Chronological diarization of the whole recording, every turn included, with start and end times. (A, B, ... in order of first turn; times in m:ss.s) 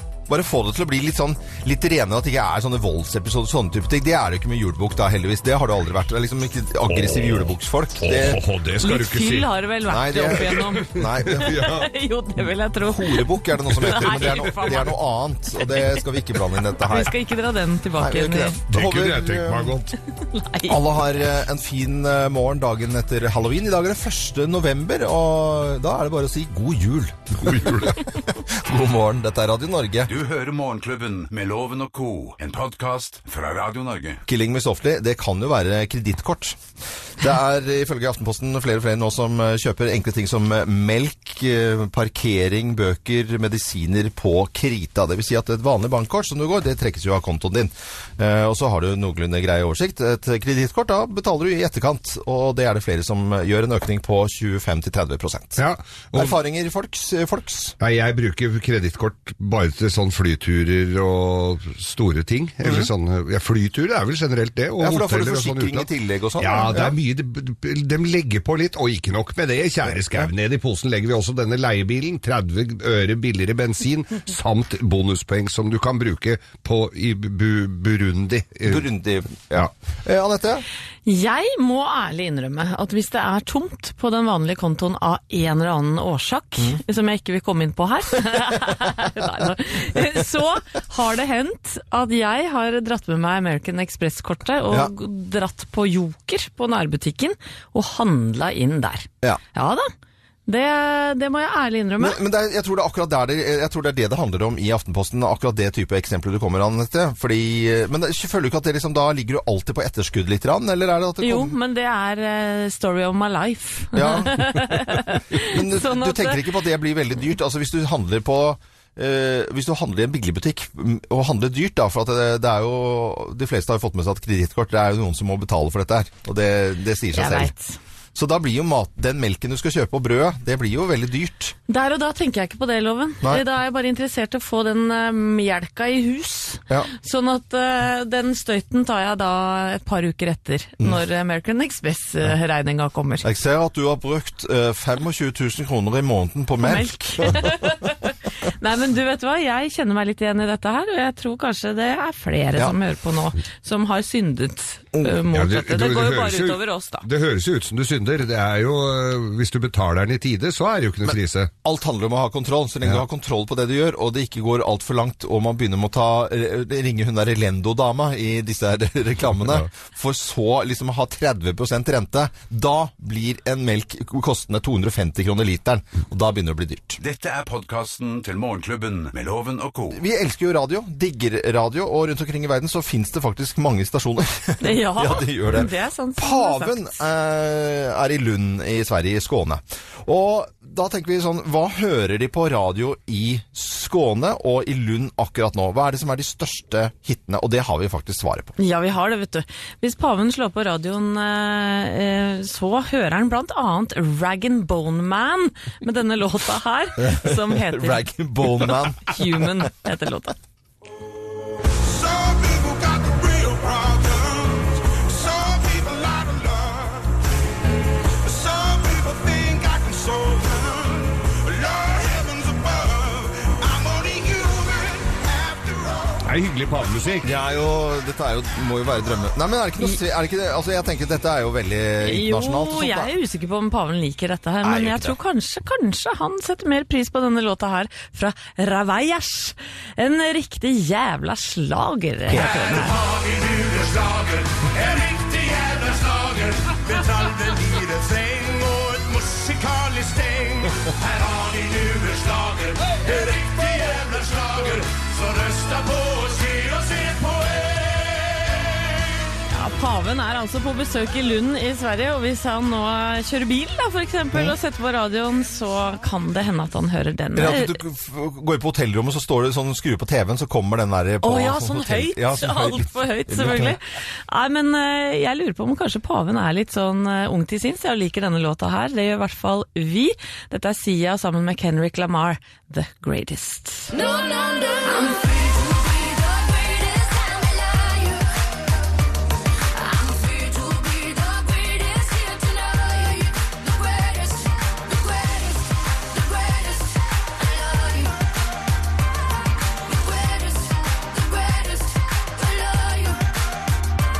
0:00.3-0:08.4 A
0:06.9-0:09.5 B
0:08.8-0:14.9 C
0:09.9-0:11.7 A
0:11.3-0:11.9 B
0:12.8-0:17.1 A
0:13.8-0:14.9 B
0:16.9-0:18.6 C
0:18.0-0:19.8 A
0:18.7-0:19.9 B
0:20.2-0:21.0 C
0:20.7-0:30.1 A
0:27.4-0:28.0 B
0:30.1-0:34.2 D
0:34.3-0:36.6 A
0:37.2-0:55.6 A
0:55.6-0:56.4 B
0:56.1-0:57.8 A
0:57.8-1:05.9 B
1:02.6-1:02.9 A
1:04.8-1:07.0 A
1:06.4-1:18.9 B
1:18.7-1:20.6 A
1:21.0-1:39.9 C
1:40.5-1:42.2 C
1:42.0-1:51.6 A
1:51.2-1:56.5 C
1:53.9-2:07.5 A
2:07.1-2:07.8 C
2:08.2-2:11.6 A
2:11.7-2:23.2 C
2:23.2-2:27.5 A
2:26.6-2:37.1 C
2:35.3-2:41.5 B
2:41.6-2:57.0 A
2:57.0-3:00.0 D
2:59.9-3:18.6 A
3:04.6-3:07.0 C
3:18.6-3:28.1 C
3:27.0-3:29.6 A
3:29.0-3:30.4 C
3:31.8-3:37.2 E
3:38.2-3:46.3 E
3:46.2-3:47.4 B
3:47.2-3:53.1 A
3:52.0-4:03.0 C
3:54.6-3:55.2 A
4:02.3-4:02.9 A
4:02.4-4:18.4 E
4:19.5-4:27.8 C
4:27.4-4:33.8 A
4:31.2-4:43.9 C
4:43.9-4:48.5 F
4:49.7-4:58.3 F
4:59.8-5:03.3 F